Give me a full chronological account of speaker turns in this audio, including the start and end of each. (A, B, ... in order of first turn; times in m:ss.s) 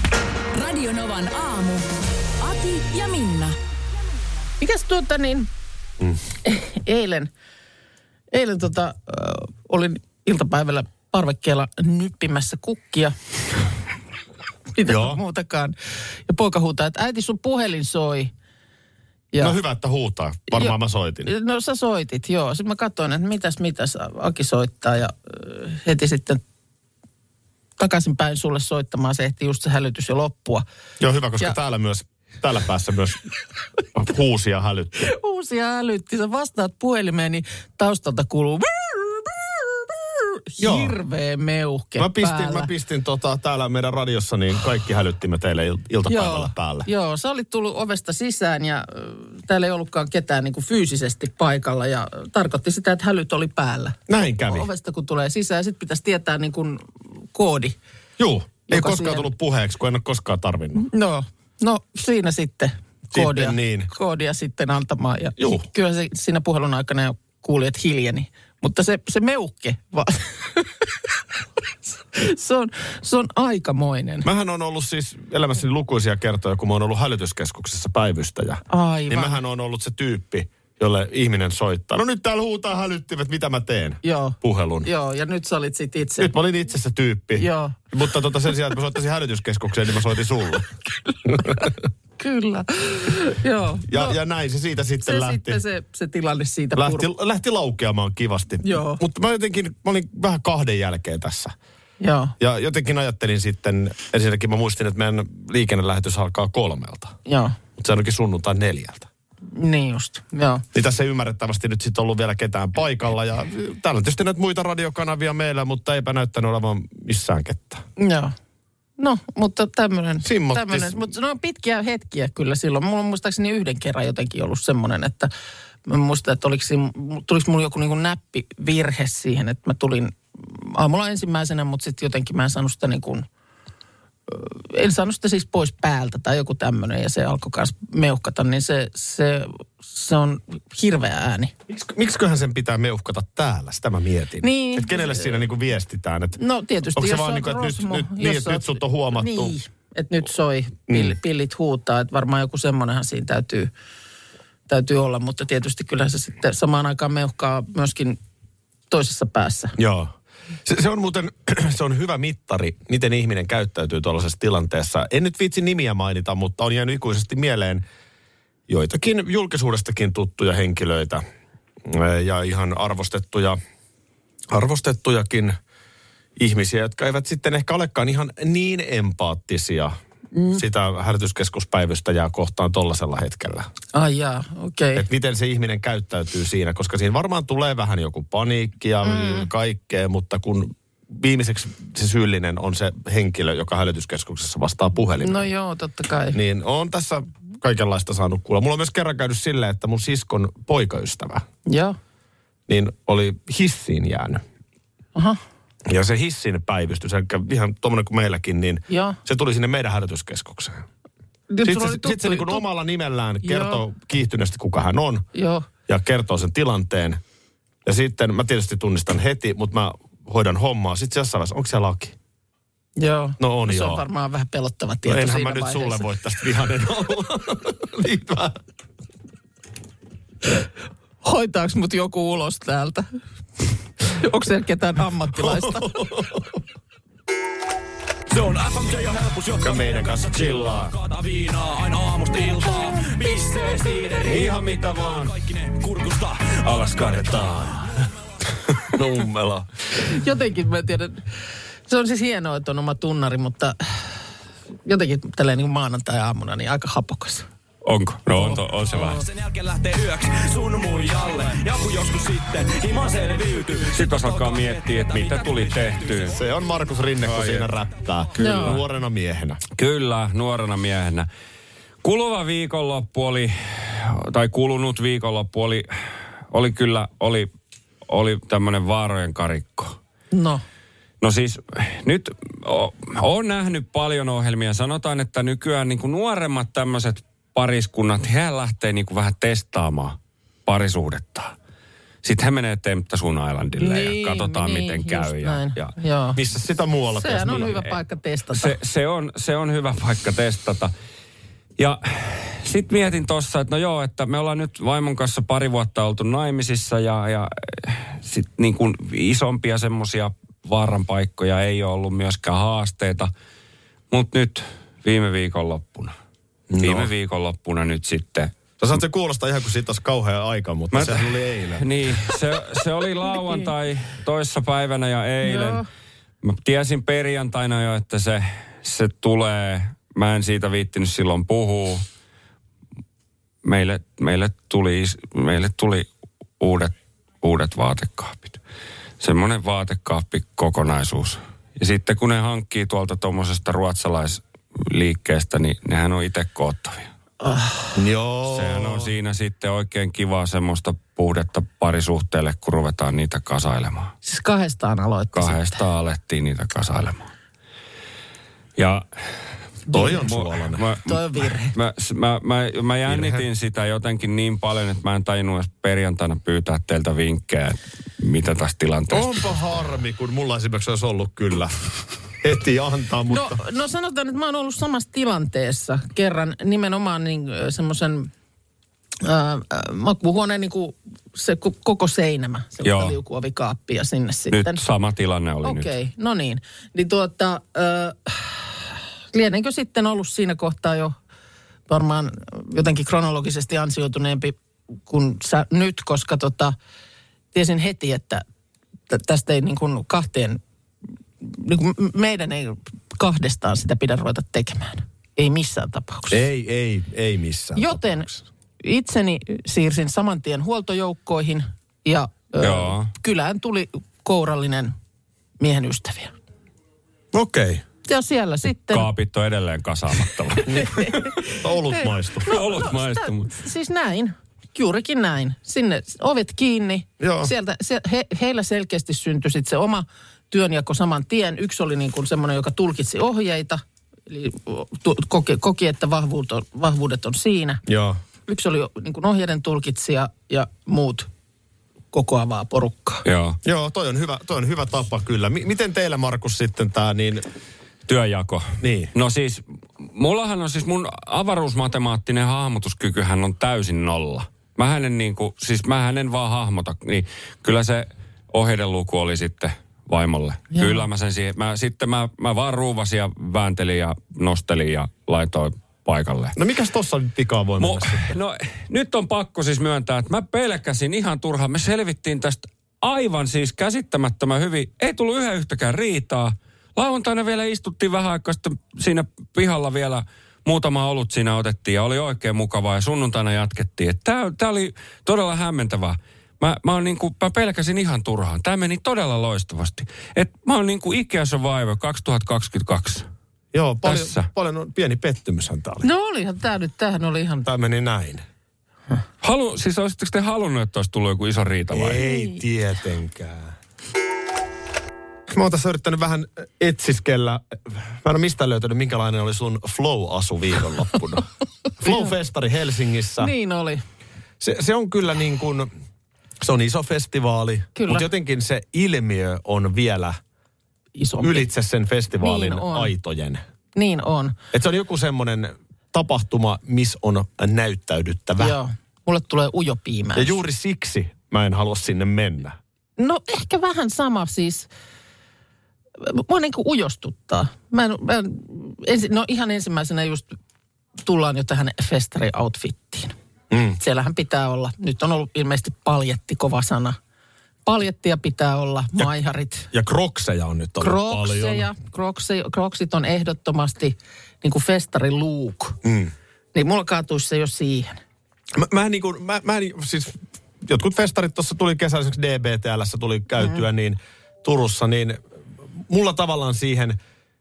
0:00.5-0:01.9 A
0:02.4-0:03.6 A
0:04.6-0:05.5 B
0:06.4-0:07.3 B
0:08.3-0:13.1 B
0:14.7-0:15.7 B
0:14.8-0:15.2 C
0:16.3-0:18.3 B
0:19.3-0:19.6 B
0:19.4-0:21.3 C
0:20.5-0:26.4 B
0:27.8-0:30.6 B
0:31.0-0:33.3 C
0:33.9-0:35.1 C
0:35.0-0:42.7 B
0:40.6-0:41.0 C
0:42.0-0:46.9 C
0:46.1-0:57.8 B
0:54.1-0:54.7 C
0:58.2-1:00.9 C
0:58.7-0:59.3 B
1:00.8-1:10.9 B
1:03.1-1:03.9 C
1:05.4-1:05.6 C
1:12.1-1:14.3 B
1:14.2-1:24.9 C
1:18.7-1:19.4 B
1:24.0-1:26.3 B
1:26.2-1:30.7 C
1:27.4-1:27.8 B
1:31.2-1:31.7 C
1:32.2-1:34.2 B
1:33.9-1:35.6 C
1:35.0-1:37.1 B
1:36.8-1:41.5 C
1:38.6-1:39.0 B
1:42.0-1:42.3 B
1:42.4-1:47.2 C
1:47.2-1:47.6 B
1:47.8-1:49.1 C
1:49.5-1:50.6 B
1:50.7-1:57.8 C
1:58.0-1:58.3 B
1:59.0-2:05.3 B
2:00.2-2:01.1 C
2:05.8-2:13.2 B
2:14.3-2:21.5 B
2:21.7-2:26.4 C
2:24.4-2:25.4 B
2:26.4-2:33.7 B
2:26.9-2:29.5 C
2:30.9-2:31.2 C
2:34.7-2:38.2 B
2:38.9-2:39.8 B
2:39.8-2:40.1 C
2:40.6-2:47.8 C
2:48.7-2:51.2 C
2:51.8-2:53.6 C
2:54.5-2:55.5 C
2:56.4-2:59.9 C
3:00.3-3:00.6 B
3:00.5-3:03.7 C
3:03.9-3:05.0 B
3:05.0-3:15.5 C
3:09.0-3:09.5 B
3:15.2-3:16.4 B
3:16.3-3:21.4 C
3:21.6-3:22.0 B
3:22.7-3:24.4 C
3:25.8-3:30.8 C
3:28.9-3:29.2 B
3:31.5-3:32.6 B
3:31.6-3:35.2 C
3:33.4-3:33.8 B
3:35.3-3:35.6 B
3:35.9-3:37.2 C
3:37.8-3:42.2 C
3:43.0-3:46.1 B
3:43.4-3:44.0 C
3:45.0-3:48.6 C
3:51.2-3:53.0 B
3:54.0-3:56.0 B
3:55.3-3:56.6 C
3:58.3-4:07.9 D
3:59.6-4:00.9 C
4:04.2-4:05.3 C
4:06.8-4:07.7 C
4:07.0-4:07.4 E
4:08.9-4:09.7 C
4:10.0-4:11.2 B
4:11.9-4:13.8 B
4:14.8-4:17.4 B
4:17.8-4:19.2 E
4:18.9-4:26.4 D
4:23.9-4:26.4 E
4:26.3-4:29.6 C
4:27.2-4:27.7 E
4:28.4-4:28.8 B
4:28.4-4:28.8 E
4:29.7-4:31.3 E
4:32.0-4:35.9 E
4:36.5-4:37.5 E
4:38.1-4:40.0 E
4:40.3-4:40.6 B
4:41.2-4:51.5 E
4:52.2-4:55.9 E
4:53.8-4:56.4 B
4:56.4-4:57.8 C
4:57.1-4:58.8 B
4:58.5-5:00.9 E
5:01.8-5:13.3 E
5:14.1-5:16.1 E
5:16.7-5:17.1 C
5:16.8-5:18.5 E
5:18.8-5:22.3 C
5:20.9-5:25.8 E
5:23.3-5:23.7 B
5:25.4-5:25.8 B
5:26.4-5:32.0 E
5:33.6-5:36.1 E
5:36.6-5:38.6 E
5:39.2-5:47.1 E
5:47.4-5:48.0 B
5:48.0-5:49.1 C
5:48.5-5:54.1 E
5:54.2-5:55.8 B
5:55.3-5:57.3 E
5:58.8-5:59.1 E
5:59.9-6:00.2 B
5:59.9-6:00.8 C
6:00.0-6:01.2 E
6:01.0-6:01.7 B
6:01.7-6:09.6 E
6:03.0-6:03.5 C
6:09.1-6:11.7 C
6:12.4-6:13.6 C
6:13.3-6:18.3 B
6:19.2-6:24.8 B
6:22.8-6:23.2 E
6:24.5-6:25.9 E
6:25.6-6:31.1 B
6:31.9-6:34.6 B
6:35.1-6:36.7 B
6:37.5-6:38.4 B
6:39.1-6:40.6 B
6:41.4-6:46.4 B
6:46.3-6:48.4 C
6:47.8-6:48.3 B
6:48.8-6:54.9 B
6:52.6-6:53.1 E
6:55.6-6:56.3 B
6:57.3-6:57.8 C
6:58.1-6:59.1 B
6:58.9-7:00.9 E
7:00.5-7:17.8 B
7:00.7-7:02.6 C
7:02.5-7:03.5 E
7:07.2-7:07.5 C
7:17.8-7:18.2 C
7:18.5-7:21.3 B
7:22.1-7:23.2 B
7:23.2-7:23.6 E
7:23.6-7:27.4 C
7:28.1-7:46.6 E
7:28.8-7:29.1 C
7:40.7-7:41.0 B
7:46.5-7:48.4 C
7:47.8-8:13.2 E
8:13.7-8:16.0 C
8:14.0-8:14.5 E
8:16.0-8:17.7 B
8:17.6-8:18.4 C
8:19.4-8:22.2 E
8:21.9-8:23.7 C
8:22.2-8:22.6 B
8:25.5-8:31.4 C
8:32.0-8:33.5 C
8:32.0-8:32.3 B
8:33.4-8:34.0 B
8:34.6-8:35.9 C
8:36.6-8:40.4 C
8:37.9-8:38.3 B
8:41.1-8:41.7 B
8:41.4-8:43.6 C
8:42.4-8:43.1 B
8:43.9-8:44.6 B
8:44.7-8:48.8 C
8:48.6-8:50.6 B
8:50.4-8:52.8 C
8:53.2-8:54.9 B
8:56.2-9:00.5 B
9:01.2-9:03.3 B
9:03.7-9:04.0 C
9:04.0-9:07.2 B
9:07.8-9:09.9 B
9:09.9-9:11.9 C
9:11.0-9:16.0 B
9:16.0-9:16.3 C
9:16.7-9:18.2 B
9:18.7-9:25.4 C
9:26.1-9:27.2 C